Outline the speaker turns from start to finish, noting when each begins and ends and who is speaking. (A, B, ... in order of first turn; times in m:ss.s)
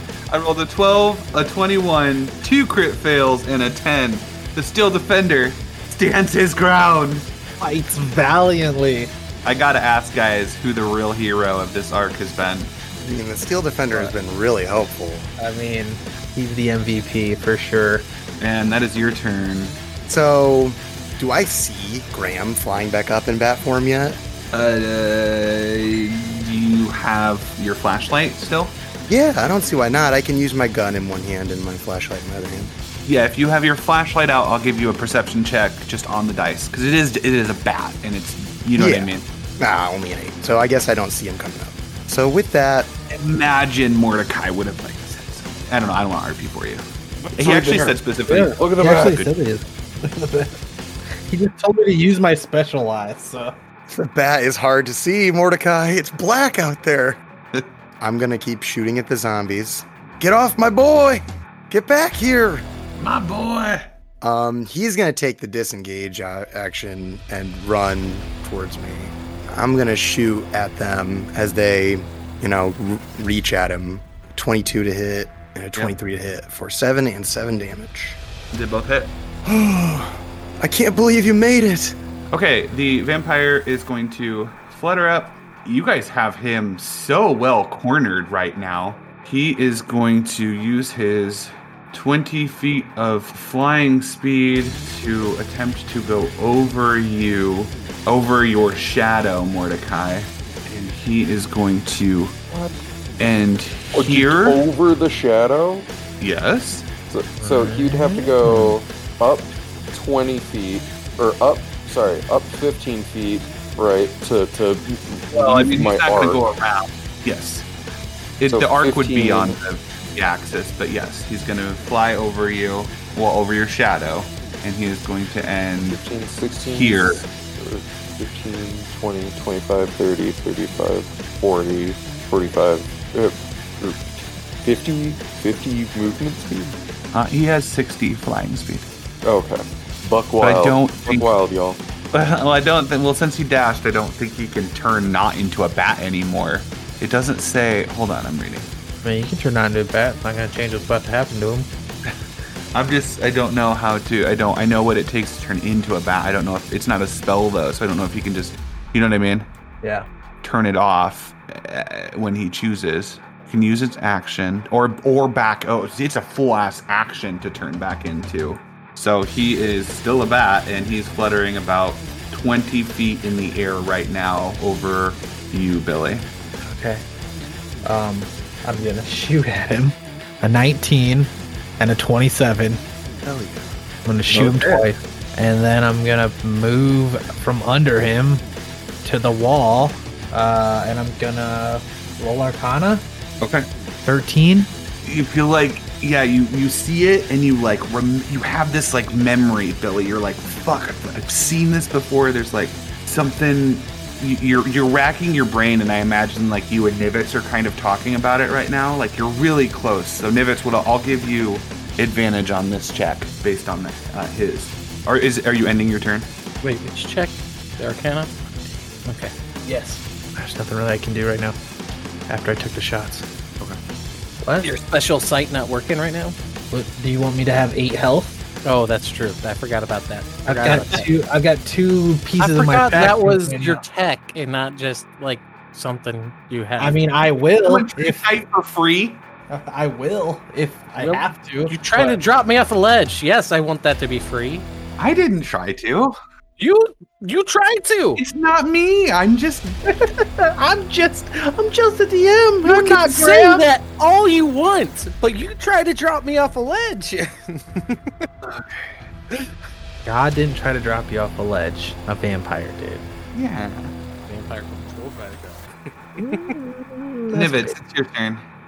0:00.3-0:07.3 A
0:07.6-0:09.1 B
0:09.4-0:12.7 A
0:13.0-0:15.3 C
0:15.4-0:18.1 B
0:18.4-0:19.8 A
0:20.1-0:24.2 C
0:24.5-0:28.8 A
0:29.1-0:32.7 C
0:33.1-0:39.2 A
0:38.8-0:42.9 C
0:43.2-0:49.3 A
0:47.2-0:49.2 D
0:48.3-0:53.6 B
0:54.0-0:57.2 C
0:58.0-1:02.7 C
1:03.0-1:03.9 A
1:04.2-1:18.2 C
1:18.5-1:19.1 A
1:19.4-1:22.0 C
1:22.3-1:42.4 A
1:42.5-1:42.9 D
1:43.2-1:44.6 A
1:43.9-1:45.9 D
1:46.2-1:46.9 A
1:47.1-1:56.4 D
1:47.4-1:48.7 B
1:55.3-1:57.7 A
1:58.4-2:06.0 A
1:58.5-1:59.6 D
2:05.9-2:16.8 D
2:06.7-2:07.2 A
2:17.1-2:18.9 A
2:19.2-2:21.8 D
2:20.4-2:21.3 A
2:22.1-2:28.7 A
2:29.0-2:31.7 B
2:32.7-2:39.5 A
2:40.4-2:56.3 A
2:56.6-2:57.0 B
2:57.8-3:02.8 B
3:03.2-3:03.8 C
3:04.0-3:08.4 B
3:04.3-3:04.8 A
3:09.0-3:13.0 B
3:13.4-3:13.7 A
3:14.0-3:14.7 B
3:15.0-3:36.3 A
3:36.6-3:38.3 E
3:39.0-3:39.3 E
3:39.7-3:41.6 B
3:42.3-3:43.2 B
3:44.4-3:44.7 B
3:44.6-3:46.4 E
3:46.7-3:48.4 B
3:48.6-3:51.1 E
3:50.5-3:53.8 B
3:52.4-3:57.0 E
3:56.8-3:58.2 B
3:57.6-3:59.2 A
3:59.5-4:02.2 B
4:01.0-4:04.6 E
4:05.0-4:06.1 A
4:06.6-4:08.2 E
4:08.2-4:10.0 A
4:10.6-4:13.4 B
4:12.6-4:18.3 E
4:12.8-4:13.6 A
4:18.5-4:19.0 A
4:20.0-4:23.0 B
4:23.3-4:23.9 A
4:24.3-4:25.7 E
4:26.2-4:27.7 B
4:27.3-4:28.4 A